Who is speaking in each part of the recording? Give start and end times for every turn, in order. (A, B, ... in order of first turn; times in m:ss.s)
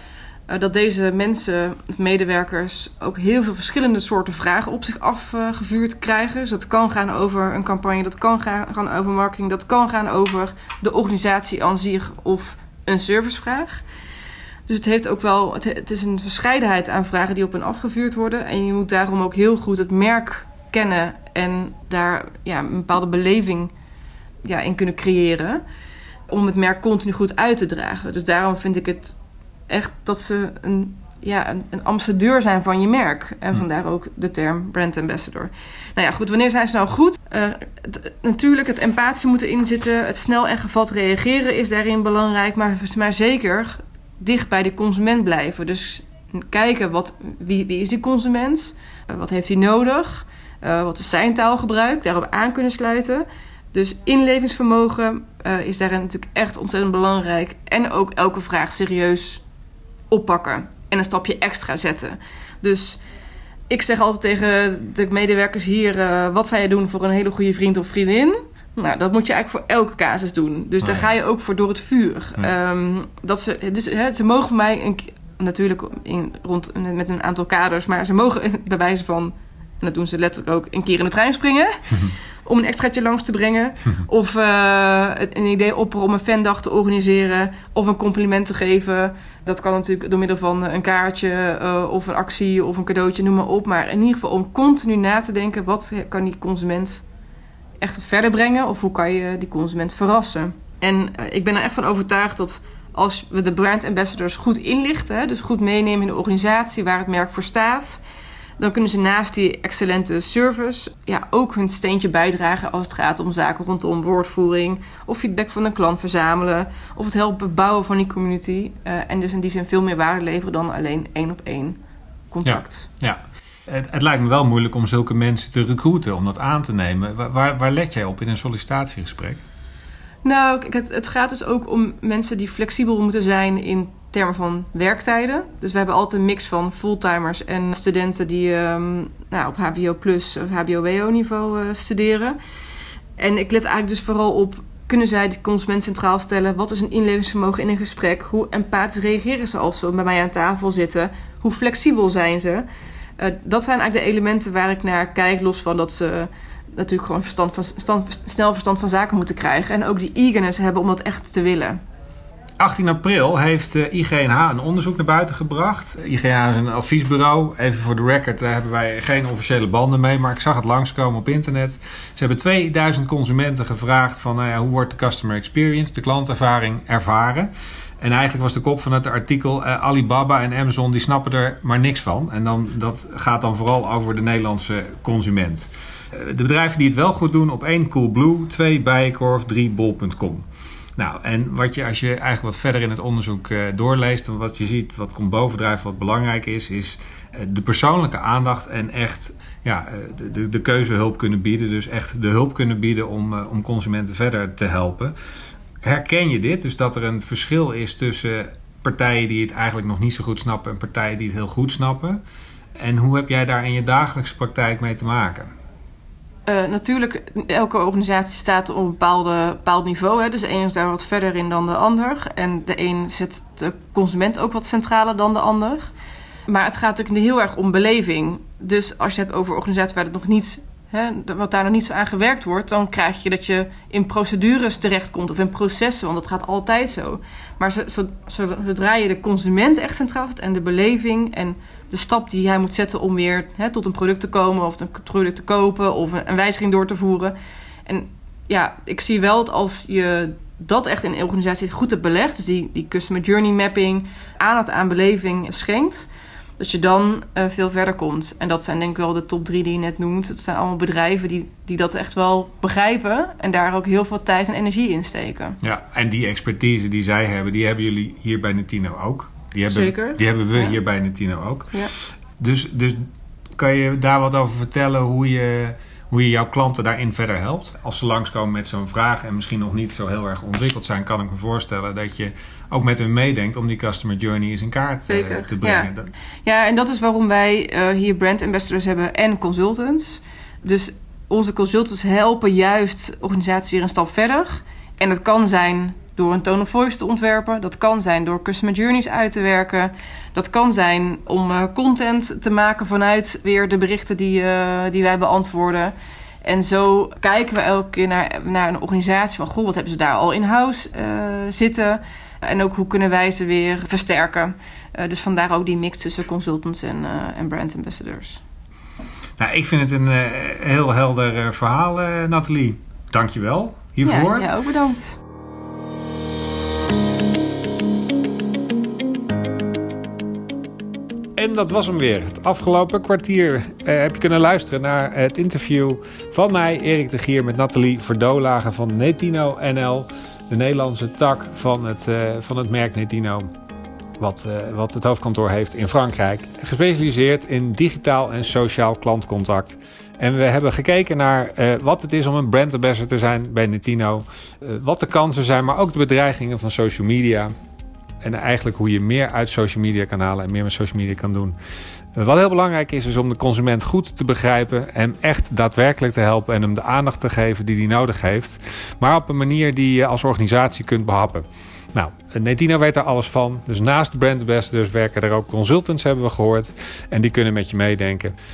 0:00.5-0:13.8 A
0:14.7-0:23.7 A
0:24.4-0:25.6 A
0:26.3-0:29.2 A
0:29.7-0:59.4 A
1:00.1-1:03.0 A
1:03.7-1:37.0 A
1:10.8-1:11.1 B
1:37.8-1:48.0 A
1:48.6-2:01.8 A
2:02.3-2:02.9 A
2:02.4-2:09.4 B
2:10.2-2:22.4 A
2:23.2-2:32.6 A
2:33.2-2:41.8 A
2:42.6-2:57.5 B
2:58.0-3:10.4 B
3:11.0-3:25.1 B
3:25.8-3:32.2 B
3:32.8-3:35.5 B
3:36.4-3:45.9 A
3:46.5-4:07.3 A
4:07.8-4:25.6 A
4:25.6-4:31.7 B
4:29.7-4:30.8 A
4:32.4-4:33.0 B
4:33.6-4:46.1 B
4:45.1-4:45.9 A
4:46.4-5:18.4 A
5:19.4-5:24.5 B
5:24.0-5:25.2 A
5:31.4-5:43.5 B
5:44.2-5:57.5 B
5:58.2-6:01.6 B
6:02.2-6:18.3 B